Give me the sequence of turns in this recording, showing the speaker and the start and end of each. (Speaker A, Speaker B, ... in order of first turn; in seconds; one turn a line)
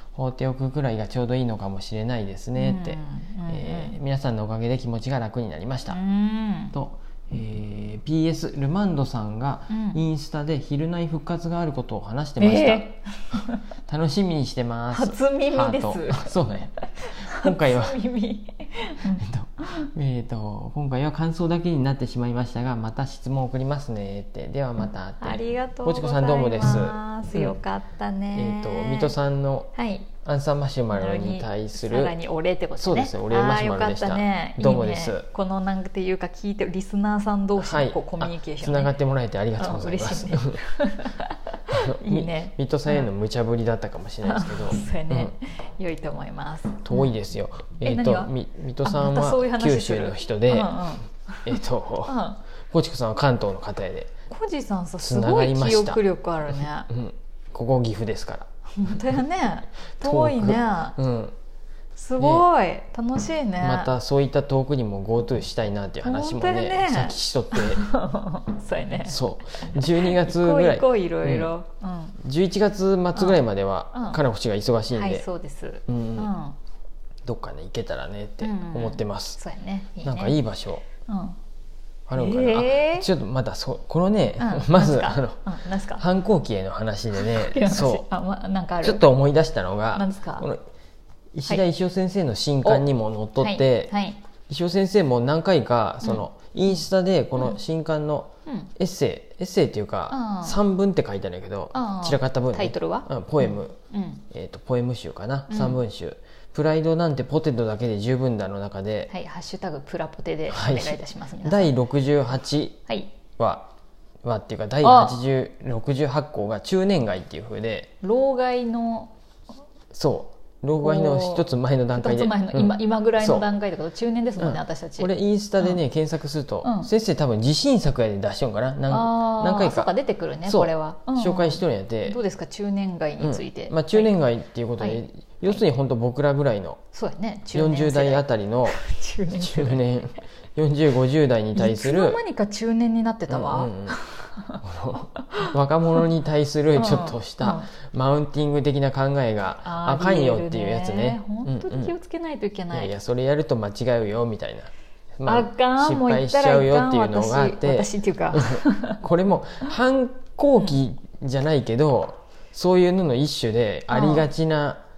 Speaker A: 0.1-6.0
Speaker B: 2.5-3.9
Speaker B: 5.9-6.7
Speaker A: 6.7-12.9
Speaker B: 9.7-10.0
Speaker B: 12.4-13.6
Speaker A: 13.8-18.0
Speaker B: 14.9-19.9
Speaker A: 19.1-27.5
Speaker B: 25.2-29.1
Speaker A: 28.3-29.7
Speaker B: 29.7-30.1
Speaker A: 30.2-32.1
Speaker B: 30.9-38.9
Speaker A: 32.8-35.2
Speaker A: 37.6-40.6
Speaker B: 39.6-43.1
Speaker A: 41.7-45.3
Speaker B: 44.2-47.1
Speaker A: 46.8-50.9
Speaker B: 47.8-52.4
Speaker A: 51.4-52.2
Speaker A: 52.7-54.1
Speaker B: 54.3-56.9
Speaker A: 55.0-59.2
Speaker B: 58.8-61.0
Speaker A: 60.0-61.3
Speaker B: 62.0-63.9
Speaker A: 62.2-62.5
Speaker A: 63.6-67.8
Speaker B: 66.0-72.2
Speaker A: 69.0-71.5
Speaker A: 72.2-75.2
Speaker B: 73.1-73.4
Speaker B: 73.9-74.2
Speaker B: 74.9-76.5
Speaker A: 75.9-76.3
Speaker A: 77.2-79.4
Speaker B: 78.4-80.4
Speaker A: 80.0-80.8
Speaker B: 81.0-81.4
Speaker A: 82.1-88.0
Speaker B: 82.1-83.1
Speaker B: 84.4-86.0
Speaker B: 87.1-89.0
Speaker A: 88.8-90.6
Speaker B: 89.9-90.5
Speaker A: 91.3-93.9
Speaker B: 93.4-94.2
Speaker A: 94.5-103.8
Speaker B: 98.5-98.7
Speaker B: 100.1-100.6
Speaker B: 101.7-104.2
Speaker A: 104.3-109.1
Speaker B: 105.5-105.8
Speaker B: 109.1-111.7
Speaker A: 110.5-112.8
Speaker B: 112.9-113.1
Speaker A: 113.4-113.7
Speaker A: 114.2-117.9
Speaker B: 114.8-115.2
Speaker B: 118.0-119.1
Speaker A: 119.9-123.5
Speaker B: 120.8-125.8
Speaker A: 124.4-129.9
Speaker B: 126.6-126.9
Speaker B: 128.9-134.1
Speaker A: 130.4-132.2
Speaker A: 133.2-136.8
Speaker B: 134.8-135.6
Speaker B: 136.9-139.9
Speaker A: 137.5-138.8
Speaker A: 139.3-142.2
Speaker B: 141.5-144.6
Speaker A: 143.3-144.0
Speaker A: 144.6-151.9
Speaker B: 145.2-145.5
Speaker B: 146.7-147.7
Speaker B: 149.6-152.9
Speaker A: 152.7-164.8
Speaker B: 155.2-159.0
Speaker B: 163.9-164.3